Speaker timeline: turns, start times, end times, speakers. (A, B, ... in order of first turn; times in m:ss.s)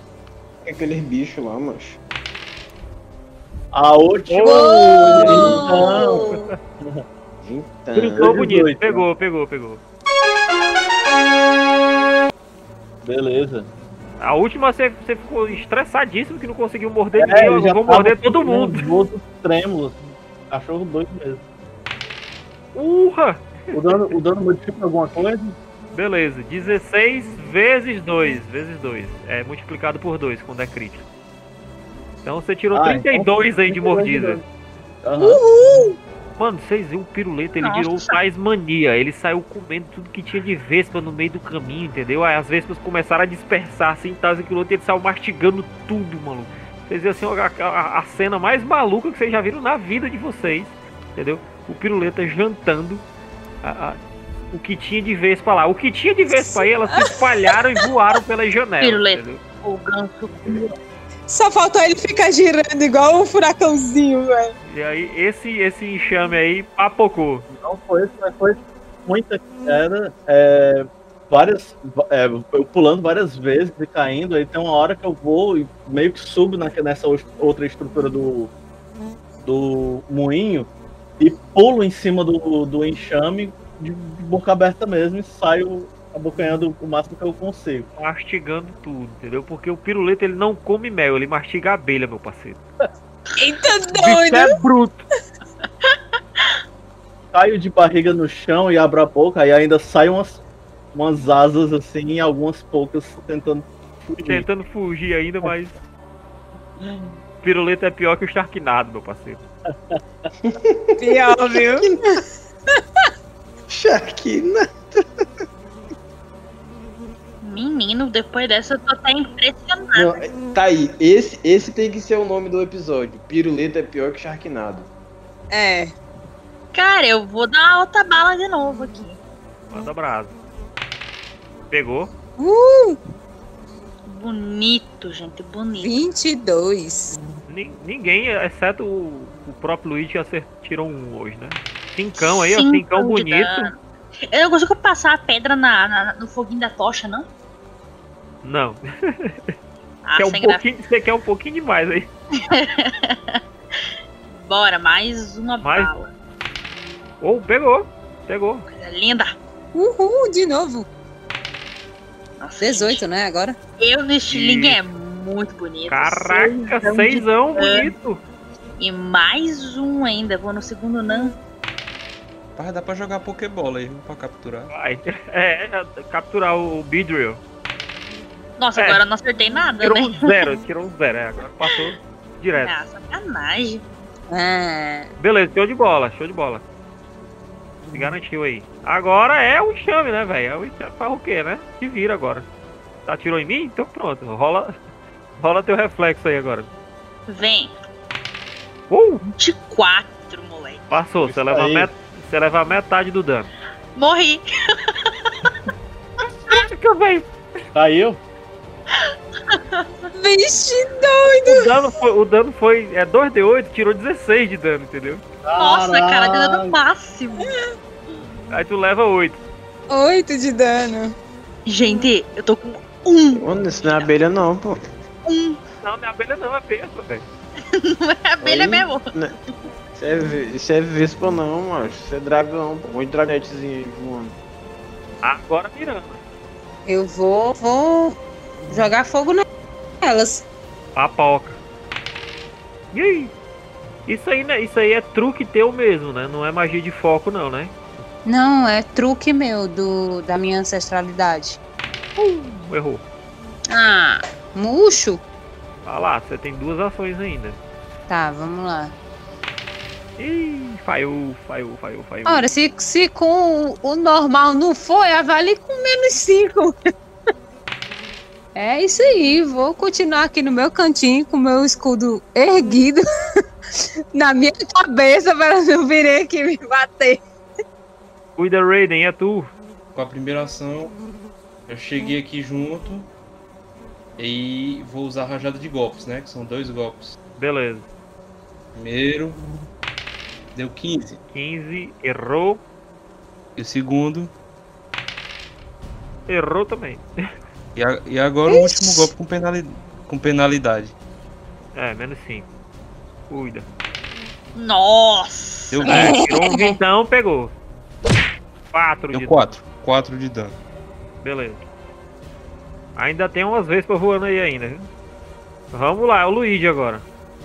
0:00.6-0:02.0 A
0:03.7-0:06.3 B
0:04.3-0:05.6 C
0:05.2-0:05.6 A
0:05.2-0:06.4 D
0:06.2-0:06.5 C
0:07.4-0:08.5 A
0:08.0-0:09.8 C
0:08.1-0:09.1 B
0:13.0-0:13.7 B
0:14.2-0:18.9 C
0:17.1-0:20.0 B
0:20.5-0:21.4 B
0:22.7-0:24.0 C
0:23.7-0:25.6 B
0:25.9-0:31.0 C
0:32.2-0:34.4 C
0:32.7-0:34.4 B
0:35.0-0:35.4 B
0:35.2-0:35.9 E
0:36.4-0:53.0 C
0:37.6-0:38.2 E
0:53.6-0:54.0 C
0:54.5-0:59.4 C
0:56.3-0:56.6 D
0:58.8-1:00.7 E
1:01.3-1:04.5 D
1:04.6-1:07.4 C
1:07.5-1:18.5 B
1:19.4-1:27.9 B
1:28.0-1:32.6 C
1:33.4-1:34.5 D
1:33.9-1:35.0 C
1:35.6-1:36.4 E
1:37.3-1:40.4 B
1:40.9-1:44.4 B
1:44.2-1:45.7 C
1:46.8-1:47.1 B
1:47.4-1:49.4 C
1:50.4-1:52.0 A
1:51.0-1:52.0 D
1:53.7-1:55.2 A
1:57.4-2:00.2 E
2:00.0-2:04.9 A
2:05.5-2:05.9 D
2:06.7-2:09.2 E
2:09.7-2:10.3 C
2:11.7-2:12.1 C
2:12.4-2:13.0 D
2:14.0-2:16.0 E
2:15.8-2:17.2 D
2:17.5-2:23.7 C
2:22.2-2:23.8 E
2:24.3-2:27.3 E
2:28.4-2:29.5 C
2:30.0-2:30.7 E
2:30.2-2:32.1 C
2:32.4-2:33.8 E
2:34.3-2:36.1 E
2:35.6-2:35.9 C
2:37.2-2:38.6 C
2:38.8-2:39.3 E
2:39.7-2:40.9 D
2:42.4-2:43.0 E
2:42.6-2:43.6 D
2:43.8-2:47.9 E
2:44.3-2:44.8 C
2:45.9-2:48.2 C
2:48.8-2:51.4 E
2:52.5-2:54.7 F
2:54.7-2:57.4 C
2:58.6-3:00.5 E
2:58.8-2:59.0 C
2:59.8-3:02.7 C
3:01.6-3:01.9 E
3:02.6-3:03.8 E
3:04.3-3:05.1 D
3:05.2-3:06.6 C
3:07.9-3:12.4 C
3:13.0-3:14.8 C
3:15.4-3:16.7 C
3:17.3-3:17.7 E
3:18.9-3:19.2 C
3:19.3-3:20.9 E
3:20.9-3:23.5 C
3:21.2-3:21.9 A
3:23.9-3:25.3 E
3:26.5-3:27.3 C
3:27.7-3:28.2 B
3:28.9-3:29.9 E
3:30.2-3:31.7 D
3:31.4-3:35.2 C
3:35.4-3:36.7 B
3:35.6-3:37.5 E
3:38.5-3:39.4 C
3:39.9-3:41.1 D
3:41.6-3:44.1 E
3:43.3-3:44.8 A
3:45.2-3:45.6 E
3:45.8-3:47.2 C
3:47.7-3:49.1 E
3:48.4-3:49.4 A
3:50.0-3:54.3 A
3:55.2-3:56.2 C
3:56.9-3:58.2 D
3:58.7-3:59.4 D
4:00.0-4:00.4 D
4:00.9-4:01.6 C
4:02.9-4:03.3 C
4:04.1-4:08.0 C
4:08.2-4:11.6 D
4:12.2-4:13.0 C
4:13.7-4:15.2 D
4:15.8-4:17.6 C
4:18.1-4:18.9 D
4:20.2-4:22.5 C
4:22.2-4:26.7 D
4:28.5-4:33.0 D
4:34.1-4:37.2 D
4:38.4-4:39.5 C
4:39.9-4:40.9 F
4:41.7-4:43.1 F
4:44.2-4:47.2 F
4:47.4-4:47.8 C
4:48.7-4:49.4 F
4:50.5-4:51.2 F
4:51.3-4:52.6 C
4:53.6-4:54.3 F
4:56.3-4:57.0 C
4:57.8-5:01.0 F
4:58.5-4:59.1 D
5:01.7-5:02.5 C
5:03.3-5:03.7 C
5:04.6-5:06.1 E
5:05.7-5:06.2 F
5:05.9-5:07.5 C
5:05.9-5:06.8 D
5:08.7-5:09.5 C
5:09.1-5:10.6 F
5:11.2-5:11.6 C
5:13.0-5:14.9 C
5:15.7-5:17.0 C